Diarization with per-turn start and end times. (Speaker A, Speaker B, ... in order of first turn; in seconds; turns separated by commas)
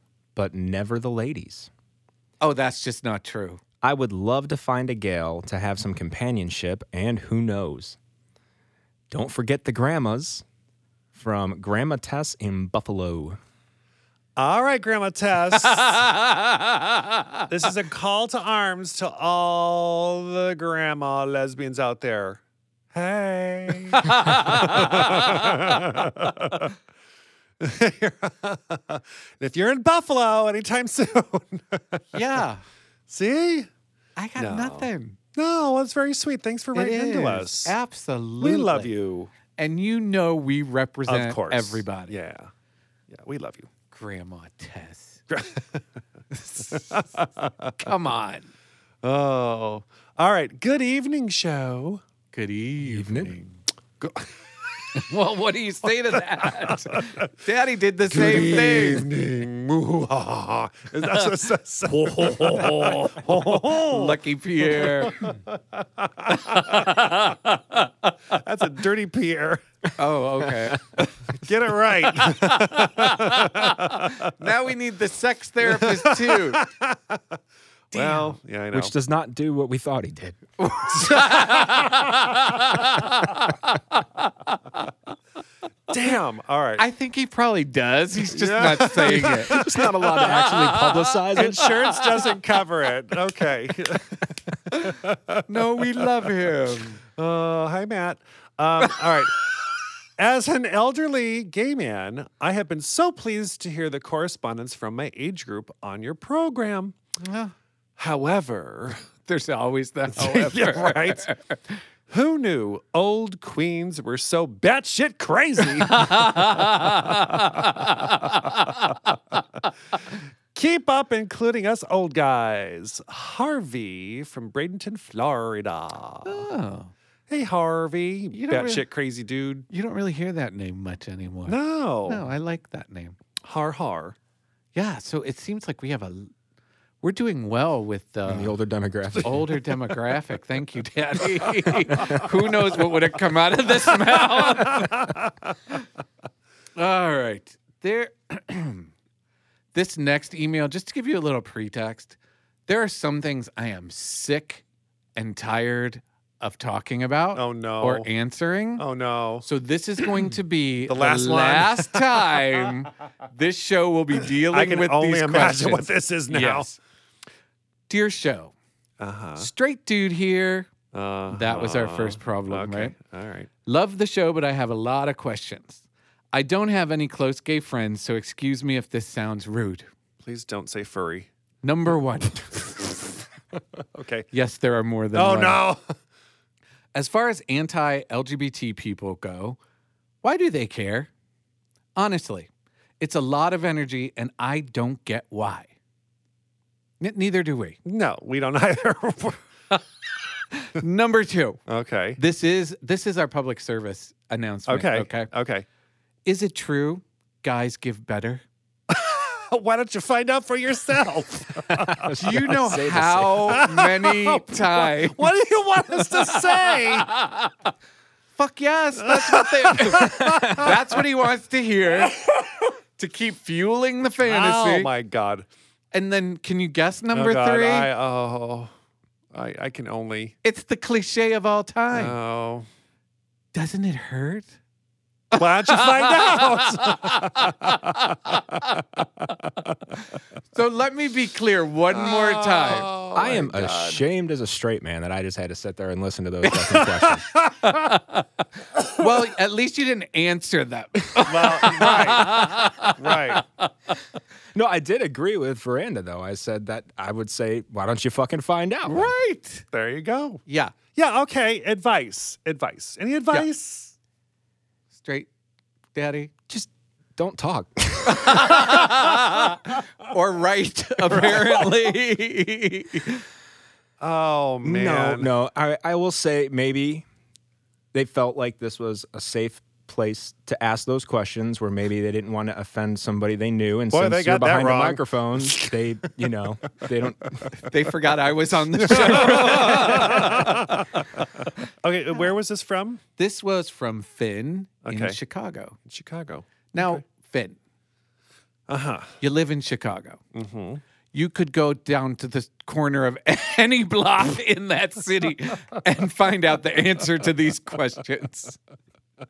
Speaker A: 0.3-1.7, Speaker B: 2.4-3.6, Speaker A: 3.8-8.0, Speaker A: 9.1-10.4, Speaker A: 11.1-13.4, Speaker C: 14.4-16.1, Speaker B: 16.0-17.4, Speaker C: 17.5-22.4, Speaker C: 22.9-26.7, Speaker B: 24.0-25.5, Speaker C: 27.6-32.4, Speaker B: 32.1-32.6, Speaker C: 33.1-33.7, Speaker B: 34.2-35.2, Speaker C: 34.4-37.7, Speaker B: 36.7-38.9, Speaker C: 38.4-39.3, Speaker B: 39.5-42.1, Speaker C: 41.1-42.5, Speaker C: 43.1-43.7, Speaker B: 43.9-45.2, Speaker C: 45.3-45.8, Speaker B: 46.3-46.9, Speaker C: 46.7-47.7, Speaker B: 47.8-48.5, Speaker C: 49.0-52.0, Speaker B: 52.3-53.6, Speaker A: 52.8-53.3, Speaker C: 54.0-54.3, Speaker B: 54.9-59.1, Speaker C: 58.1-67.4, Speaker B: 61.9-63.2, Speaker B: 63.9-65.2, Speaker B: 66.5-66.9, Speaker C: 68.3-69.6, Speaker B: 70.0-71.0, Speaker C: 71.3-74.3, Speaker B: 74.4-76.6, Speaker C: 75.6-77.2, Speaker B: 77.9-78.4, Speaker C: 77.9-78.9, Speaker A: 78.7-80.4, Speaker B: 80.6-84.5, Speaker C: 80.9-82.1, Speaker C: 85.9-86.8, Speaker B: 86.8-91.1, Speaker C: 88.3-89.9, Speaker A: 89.3-91.6, Speaker C: 91.3-95.4, Speaker B: 92.0-92.3, Speaker B: 95.5-97.0, Speaker C: 97.2-99.5, Speaker C: 100.2-107.0, Speaker B: 107.2-107.5, Speaker C: 108.0-109.0, Speaker B: 109.2-111.7, Speaker C: 110.2-111.3, Speaker C: 112.1-117.7, Speaker B: 115.9-118.6, Speaker C: 120.5-126.5, Speaker B: 126.2-126.9, Speaker C: 127.3-129.7, Speaker B: 128.3-128.9, Speaker B: 129.7-133.2, Speaker C: 131.5-132.2, Speaker C: 133.4-134.2, Speaker B: 134.7-136.3, Speaker B: 137.0-138.6, Speaker A: 138.3-139.4, Speaker B: 139.2-145.0, Speaker A: 142.0-142.2, Speaker C: 144.4-145.3, Speaker B: 146.8-148.9, Speaker B: 149.7-152.2, Speaker B: 152.7-154.6, Speaker B: 155.1-158.8, Speaker C: 157.3-158.1, Speaker C: 158.8-159.4, Speaker B: 159.4-166.8, Speaker C: 160.9-162.2, Speaker C: 164.5-166.7, Speaker B: 167.9-168.5, Speaker C: 169.0-169.5, Speaker B: 169.4-170.7, Speaker C: 170.9-173.5, Speaker B: 171.3-172.9, Speaker B: 173.7-175.8, Speaker B: 176.3-179.9, Speaker C: 180.2-181.3, Speaker B: 181.6-182.6, Speaker C: 183.9-184.3, Speaker B: 184.3-185.6, Speaker C: 185.1-185.9, Speaker B: 186.9-189.6, Speaker B: 190.2-191.1, Speaker B: 191.9-192.5, Speaker B: 193.0-195.7, Speaker B: 197.0-197.8, Speaker C: 197.8-199.4, Speaker B: 200.5-201.6, Speaker C: 201.7-202.2, Speaker B: 202.2-205.3, Speaker C: 204.7-205.7, Speaker B: 206.2-208.4, Speaker C: 208.9-212.1, Speaker A: 211.7-213.7, Speaker B: 212.2-215.3, Speaker C: 213.3-217.1, Speaker B: 216.0-217.5, Speaker B: 218.3-222.2, Speaker C: 219.1-220.8, Speaker B: 223.0-224.9, Speaker C: 224.2-225.4, Speaker B: 225.9-227.9, Speaker C: 227.1-228.7, Speaker C: 229.3-230.3, Speaker B: 230.4-232.2, Speaker C: 231.9-232.7, Speaker B: 233.5-234.5, Speaker C: 235.3-239.3, Speaker B: 235.8-236.6, Speaker B: 240.5-242.9, Speaker C: 241.9-244.0, Speaker A: 243.1-247.3, Speaker B: 246.4-247.0, Speaker B: 247.6-248.2, Speaker B: 248.9-253.7, Speaker C: 251.2-253.4, Speaker A: 254.5-259.1, Speaker B: 258.8-259.6, Speaker C: 259.7-260.4, Speaker B: 260.5-260.7, Speaker C: 260.9-263.9, Speaker B: 264.9-265.3, Speaker B: 265.9-266.3, Speaker A: 266.5-268.8, Speaker B: 268.1-273.2, Speaker C: 274.0-275.3, Speaker A: 274.6-277.1, Speaker A: 277.9-287.5, Speaker C: 283.9-285.8, Speaker B: 287.6-291.0, Speaker C: 288.9-290.9, Speaker C: 291.8-293.0, Speaker B: 293.2-295.8, Speaker C: 294.8-295.2, Speaker C: 295.9-297.0, Speaker B: 296.7-297.6, Speaker C: 298.7-299.1, Speaker B: 299.2-300.2, Speaker C: 300.3-300.8, Speaker B: 301.1-308.6